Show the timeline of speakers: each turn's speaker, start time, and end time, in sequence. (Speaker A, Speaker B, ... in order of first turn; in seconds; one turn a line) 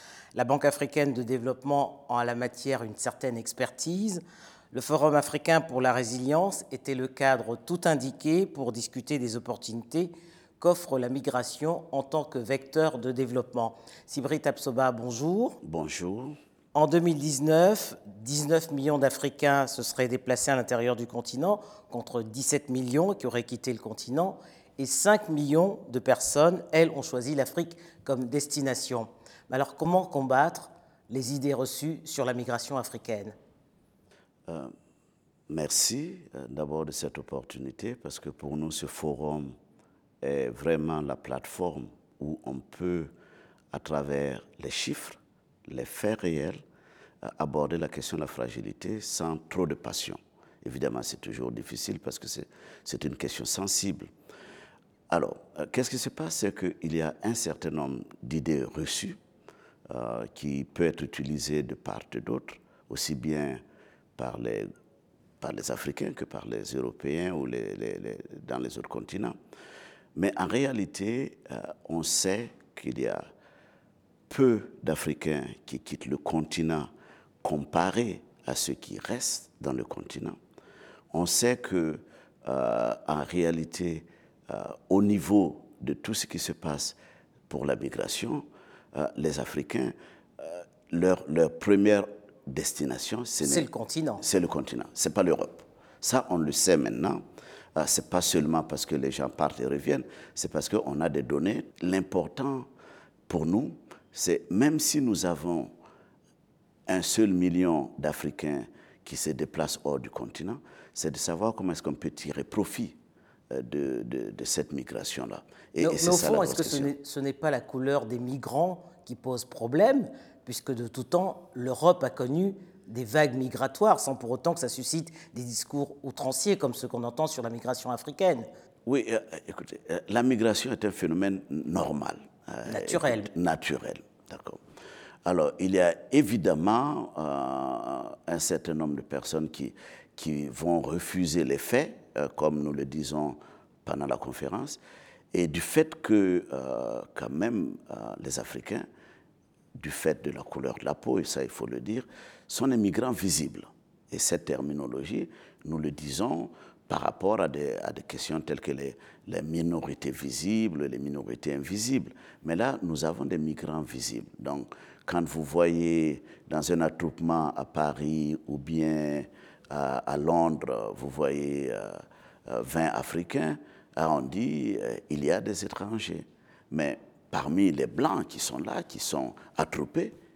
Speaker A: 0.3-15.6
Speaker B: 15.6-16.4
Speaker A: 16.7-33.3
Speaker B: 35.5-39.5
Speaker B: 40.2-43.1
Speaker B: 43.7-46.6
Speaker B: 47.2-54.1
Speaker B: 55.1-59.2
Speaker B: 59.9-63.6
Speaker B: 64.2-64.7
Speaker B: 65.4-69.3
Speaker B: 70.1-73.2
Speaker B: 74.3-76.9
Speaker B: 77.4-80.4
Speaker B: 81.1-87.0
Speaker B: 87.5-93.7
Speaker A: 93.4-94.2
Speaker B: 94.2-97.2
Speaker B: 97.8-102.7
Speaker B: 103.3-105.7
Speaker B: 106.9-113.0
Speaker B: 113.5-116.9
Speaker A: 115.8-128.4
Speaker B: 128.8-134.6
Speaker A: 132.7-133.3
Speaker B: 135.2-144.8
Speaker B: 145.3-148.8
Speaker B: 149.8-180.1